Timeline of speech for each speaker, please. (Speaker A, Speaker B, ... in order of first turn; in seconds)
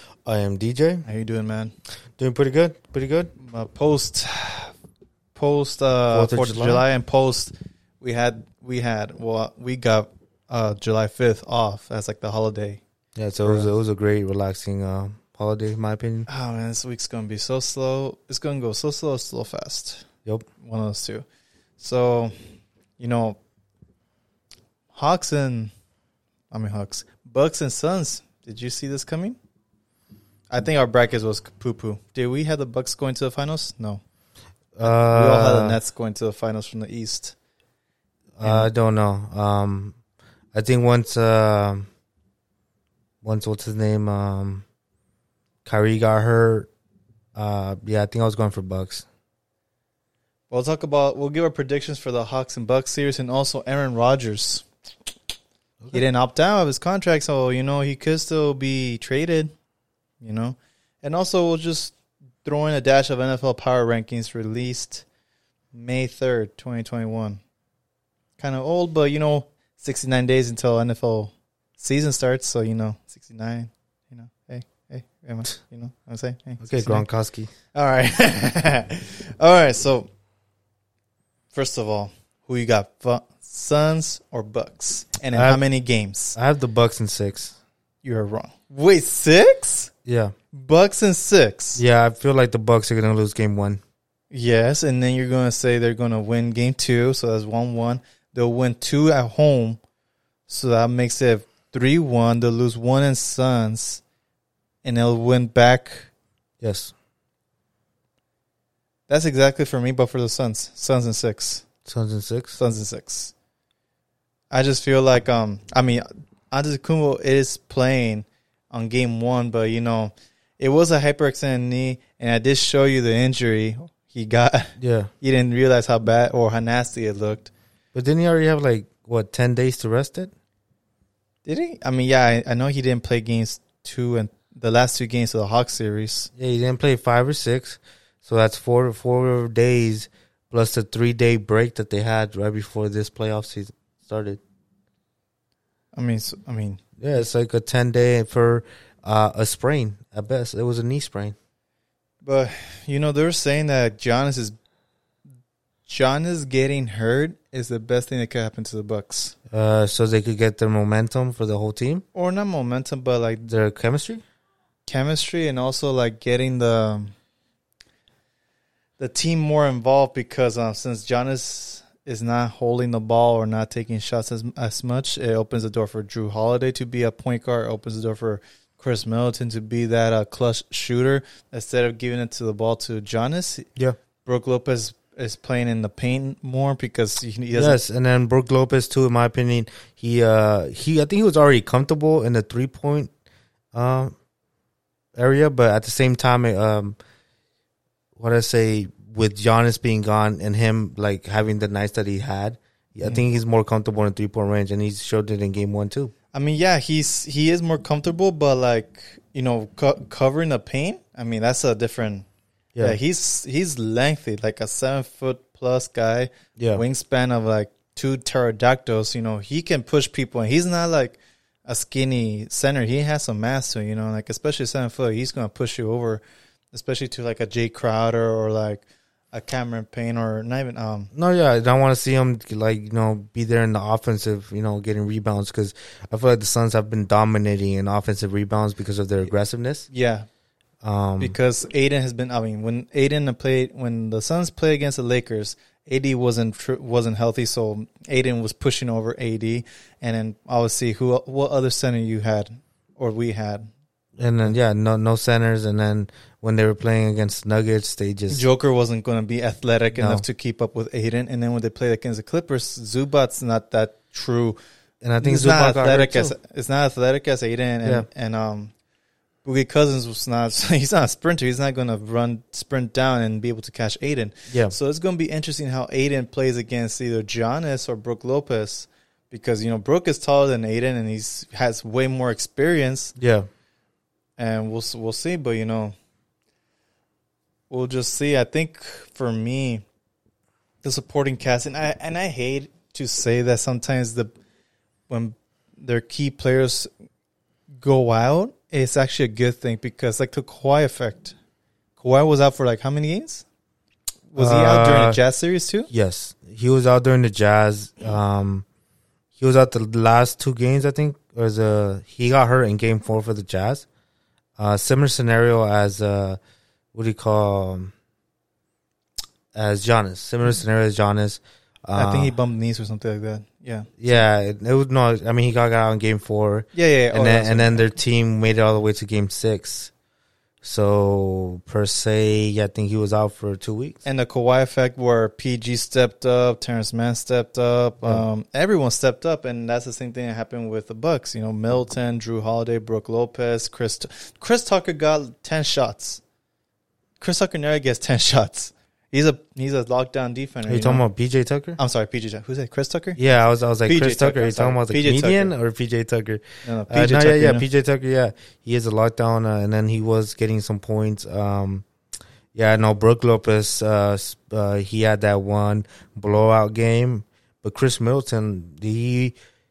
Speaker A: 0.2-1.1, 2.2-3.3, 6.1-6.8, 13.2-16.3, 34.8-35.8, 38.4-40.0, 40.5-41.9, 43.2-44.6, 45.6-46.7, 47.4-49.0, 76.6-77.5, 85.3-85.6, 86.3-87.5, 90.1-90.3, 91.8-93.8, 106.6-106.9, 111.9-112.6, 124.8-125.1, 127.9-130.3, 136.4-144.4, 147.0-151.3, 159.5-162.0, 163.5-164.2, 187.5-193.1, 193.7-194.1, 195.2-197.0, 198.2-206.1, 216.6-216.8, 231.1-239.9, 240.8-241.3, 254.2-258.4, 259.9-260.2, 265.0-266.3, 283.2-283.5, 304.4-305.2, 305.9-308.6, 309.4-313.9, 314.6-316.4, 316.9-317.9, 319.5-322.3, 324.0-329.9, 330.6-334.0, 350.7-351.8, 353.2-361.9, 362.5-369.4
Speaker B: 1.1-1.7, 3.4-4.7, 5.3-12.8, 13.4-13.7, 16.3-20.1, 20.6-21.2, 21.8-22.3, 23.0-23.4, 24.9-25.7, 26.5-29.4, 30.5-34.0, 34.8-37.4, 38.4-38.7, 50.5-54.7, 55.9-59.5, 60.2-65.0, 65.7-67.4, 68.4-77.1, 77.7-80.1, 81.5-86.4, 88.0-89.9, 90.5-91.8, 94.3-99.8, 100.5-104.0, 104.8-106.1, 109.1-111.7, 112.6-113.3, 114.5-127.5, 131.5-136.3, 146.0-146.8, 152.2-154.6, 155.9-159.3, 162.1-163.5, 164.9-167.1, 169.0-183.7, 184.2-187.8, 206.3-212.2, 212.8-231.1, 239.9-240.3, 241.2-253.7, 258.3-264.6, 265.2-268.7, 269.4-283.2, 284.4-285.9, 287.7-289.8, 290.8-294.3, 295.1-296.9, 297.8-301.4, 302.0-303.4, 304.3-305.9, 321.9-323.9, 326.8-327.9, 334.1-346.2, 347.2-351.0, 351.8-353.2, 353.9-355.5, 356.6-357.6